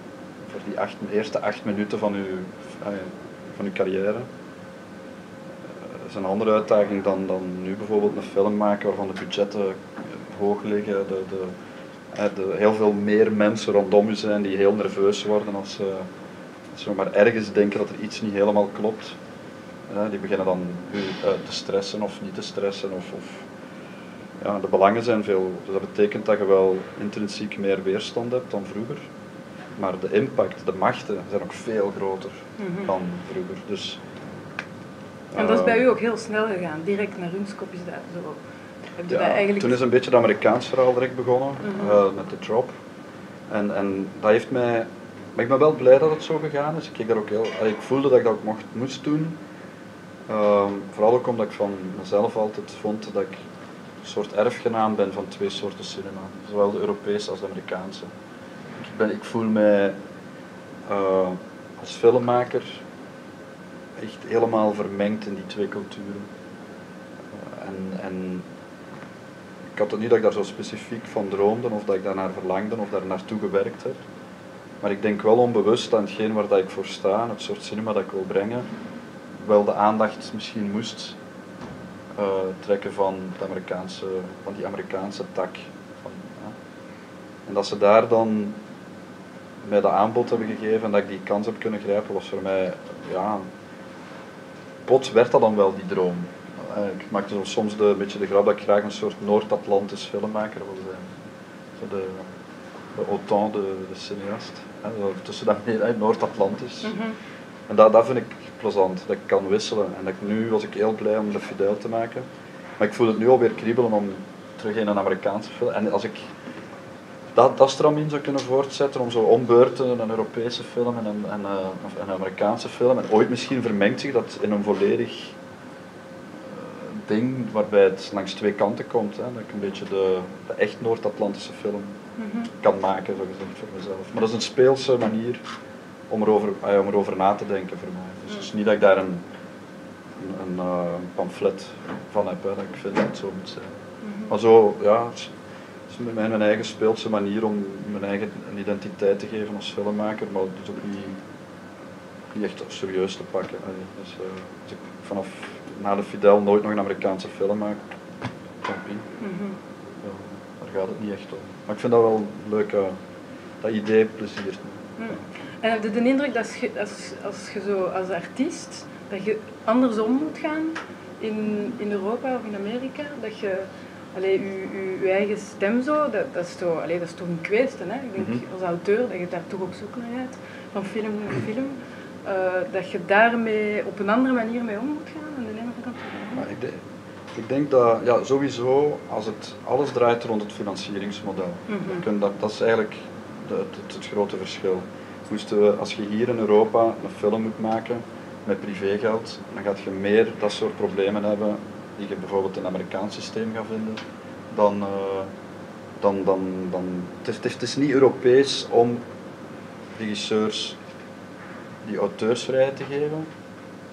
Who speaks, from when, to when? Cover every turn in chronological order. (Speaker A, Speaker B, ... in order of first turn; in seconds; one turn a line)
Speaker A: 0.5-4.3
Speaker A: 5.7-11.5
Speaker A: 12.1-16.1
Speaker A: 16.7-19.2
Speaker A: 19.9-23.4
Speaker A: 24.4-29.1
Speaker A: 29.7-34.0
Speaker B: 32.6-32.9
Speaker A: 35.3-35.8
Speaker B: 35.4-38.4
Speaker B: 39.0-39.8
Speaker A: 39.1-42.8
Speaker B: 41.6-42.0
Speaker A: 43.5-49.4
Speaker A: 50.3-53.4
Speaker A: 54.0-58.1
Speaker A: 58.8-60.0
Speaker A: 60.9-62.8
Speaker A: 64.0-66.3
Speaker A: 67.3-68.5
Speaker A: 69.7-74.0
Speaker A: 74.8-78.7
Speaker A: 79.4-81.2
Speaker A: 82.1-86.5
Speaker A: 87.5-88.6
Speaker A: 89.6-93.5
Speaker A: 94.8-101.1
Speaker A: 101.8-102.3
Speaker A: 102.9-106.9
Speaker B: 106.8-107.1
Speaker A: 107.7-112.2
Speaker A: 112.8-116.3
Speaker A: 117.3-125.3
Speaker A: 126.4-131.9
Speaker B: 132.2-132.5
Speaker A: 132.6-135.4
Speaker A: 136.1-139.2
Speaker A: 140.2-143.7
Speaker B: 144.0-144.3
Speaker A: 144.3-145.3
Speaker A: 145.9-151.2
Speaker A: 152.3-157.8
Speaker A: 158.6-159.1
Speaker B: 159.2-159.6
Speaker A: 160.0-163.0
Speaker A: 163.6-164.8
Speaker B: 165.0-186.5
Speaker A: 178.2-178.4
Speaker A: 186.3-186.8
Speaker A: 187.3-205.3
Speaker B: 191.7-192.0
Speaker A: 206.0-209.0
Speaker A: 209.9-210.8
Speaker A: 211.8-213.3